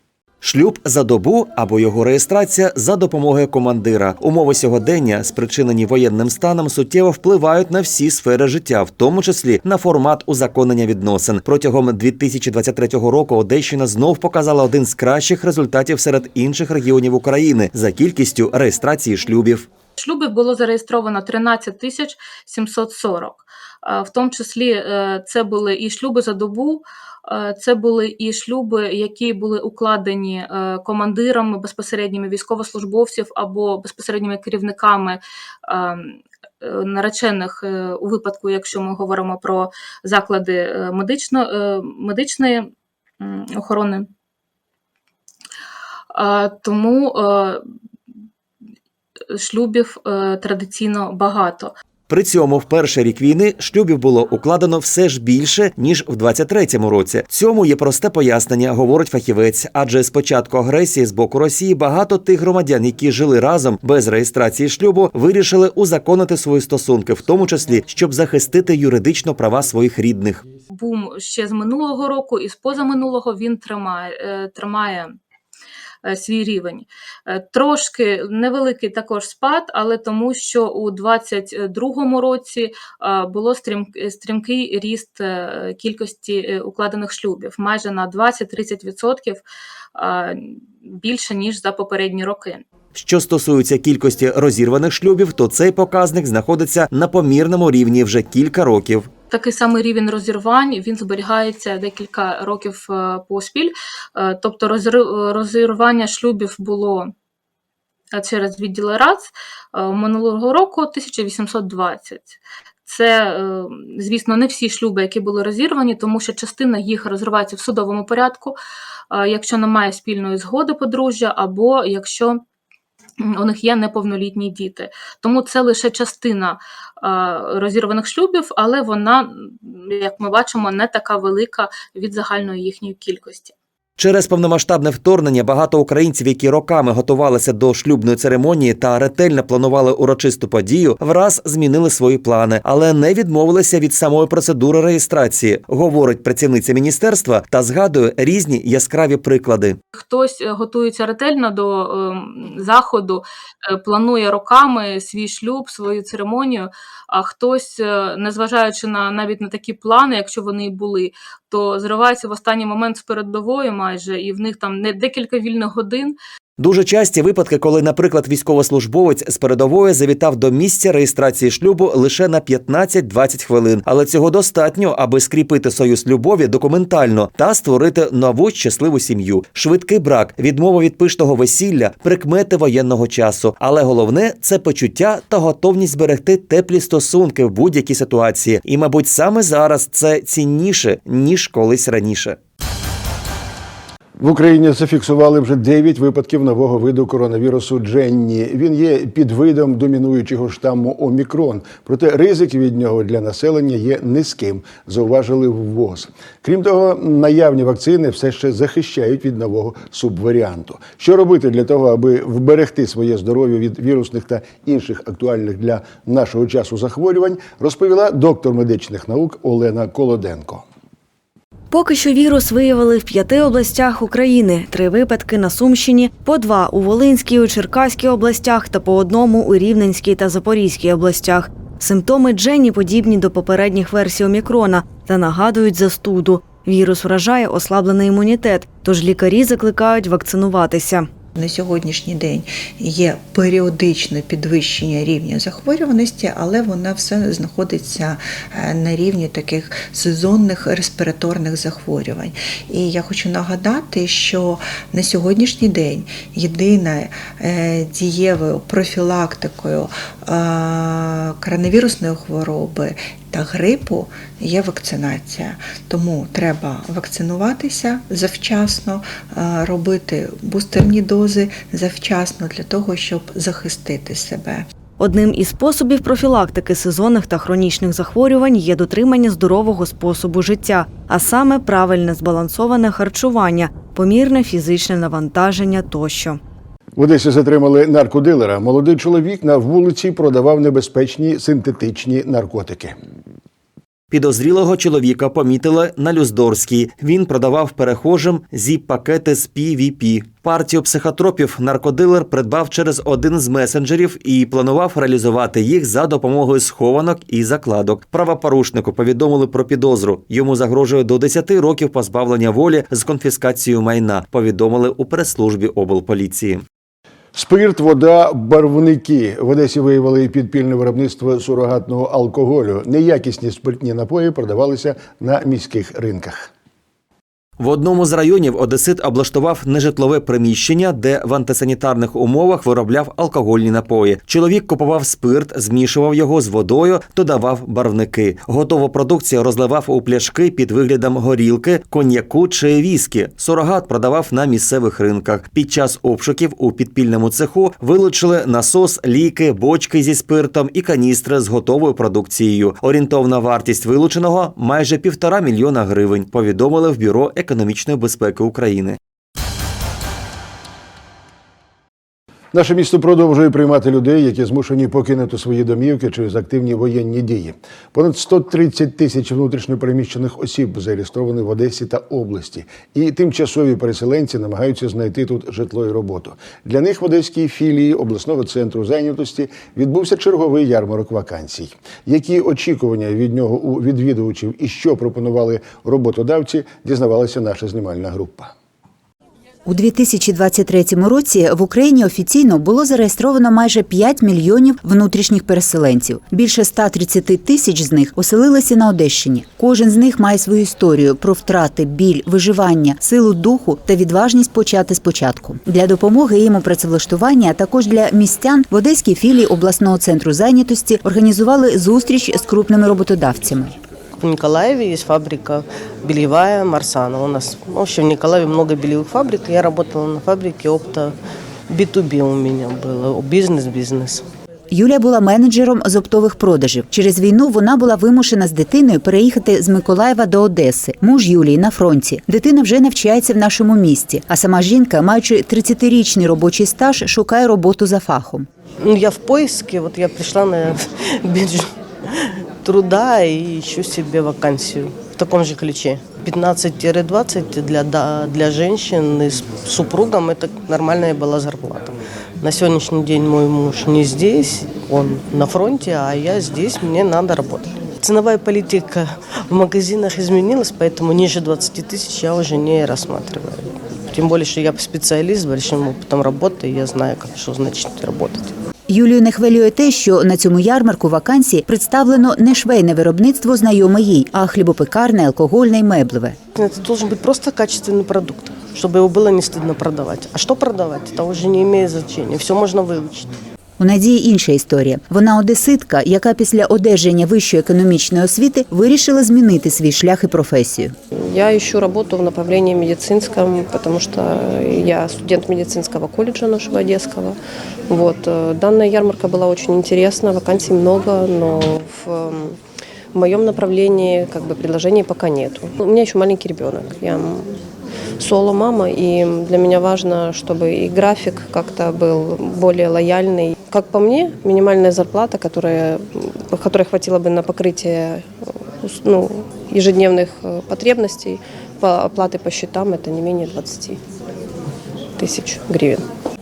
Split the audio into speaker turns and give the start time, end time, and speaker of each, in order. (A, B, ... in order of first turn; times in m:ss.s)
0:00.4-0:19.7 A
0:20.0-0:42.7 B
0:43.2-0:44.0 B
0:46.1-0:47.6 B
0:49.3-0:51.7 B
0:52.1-1:10.4 A
1:10.7-1:15.1 B
1:16.0-1:29.4 B
1:29.9-1:32.6 B
1:32.9-1:39.1 A
1:39.3-1:47.1 B
1:48.1-1:58.6 B
1:59.1-2:02.4 B
2:03.2-2:13.5 B
2:14.0-2:29.8 A
2:29.9-2:46.2 B
2:46.6-3:12.4 A
3:14.2-3:40.6 C
3:41.7-4:01.1 D
4:01.4-4:34.7 E
4:35.0-4:46.4 D
4:47.0-4:53.0 C
4:54.1-5:16.6 A
5:17.3-5:26.5 C
5:27.6-5:59.0 A
6:02.5-6:28.5 C
6:29.6-6:53.8 F
6:54.2-7:01.1 G
7:01.7-7:04.2 G
7:04.7-7:18.5 F
7:18.8-7:48.5 G
7:48.9-7:56.4 F
7:56.6-8:03.3 G
8:03.8-8:10.9 F
8:11.3-8:17.4 H
8:17.9-8:22.6 H
8:23.1-8:27.6 H
8:28.2-8:44.0 H
8:45.2-8:46.0 H